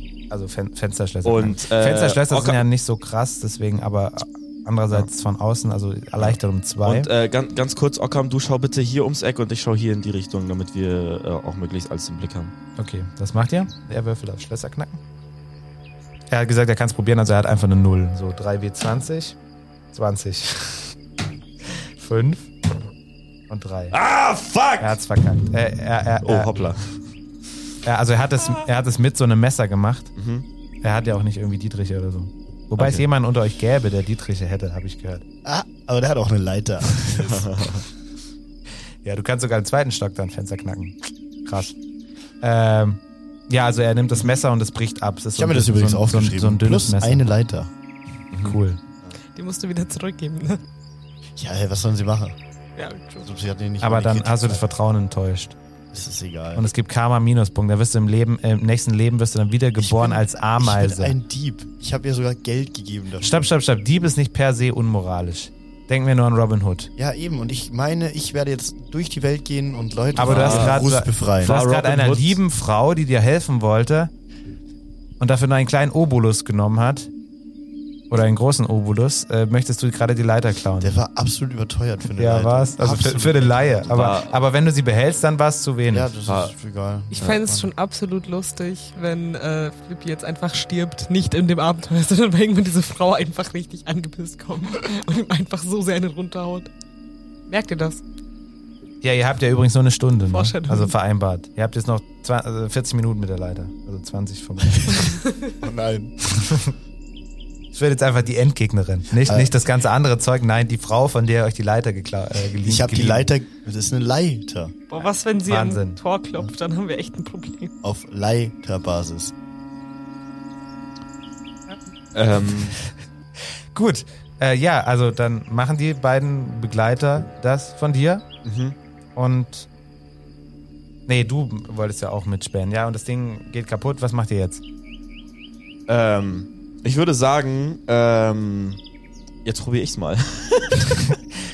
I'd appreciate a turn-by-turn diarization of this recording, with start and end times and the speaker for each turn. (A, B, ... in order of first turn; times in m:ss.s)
0:00.3-0:07.1 A
0:01.2-0:02.6 B
0:06.2-0:12.5 B
0:12.8-0:15.0 A
0:16.3-0:19.4 A
0:19.9-0:20.9 A
0:22.0-0:22.5 A
0:23.5-0:24.0 A
0:23.9-0:25.0 B
0:24.8-0:26.6 A
0:26.2-0:26.9 B
0:27.8-0:30.2 A
0:30.2-0:30.5 B
0:30.8-0:35.2 A
0:32.8-0:33.0 B
0:35.4-0:37.5 C
0:37.2-0:37.8 B
0:39.0-0:41.8 A
0:42.4-0:47.3 A
0:45.3-0:47.7 C
0:48.3-0:48.6 B
0:48.4-0:48.8 A
0:49.4-0:50.6 D
0:51.4-0:52.4 C
0:52.8-0:53.3 D
0:53.2-0:54.8 C
0:53.8-0:55.6 A
0:55.9-0:56.7 C
0:56.6-1:01.2 A
0:59.8-1:03.5 C
1:03.2-1:06.9 A
1:07.0-1:11.6 C
1:10.2-1:14.1 A
1:10.2-1:10.9 B
1:11.4-1:12.4 B
1:15.2-1:17.1 A
1:18.1-1:20.9 A
1:20.8-1:24.1 C
1:22.2-1:26.2 A
1:23.0-1:23.3 B
1:23.8-1:24.4 B
1:25.9-1:27.7 C
1:26.3-1:26.5 B
1:27.1-1:36.7 D
1:37.5-1:38.0 D
1:39.0-1:45.2 A
1:40.3-1:40.9 D
1:45.1-1:45.5 D
1:45.4-1:46.3 C
1:47.7-1:53.3 A
1:49.2-1:49.5 C
1:52.6-1:54.8 C
1:54.9-1:57.7 D
1:55.5-1:56.0 A
1:57.8-1:59.3 C
2:02.1-2:02.8 B
2:03.7-2:08.2 A
2:08.4-2:08.8 B
2:09.2-2:09.7 A
2:11.1-2:14.6 A
2:15.9-2:18.8 B
2:19.4-2:21.2 B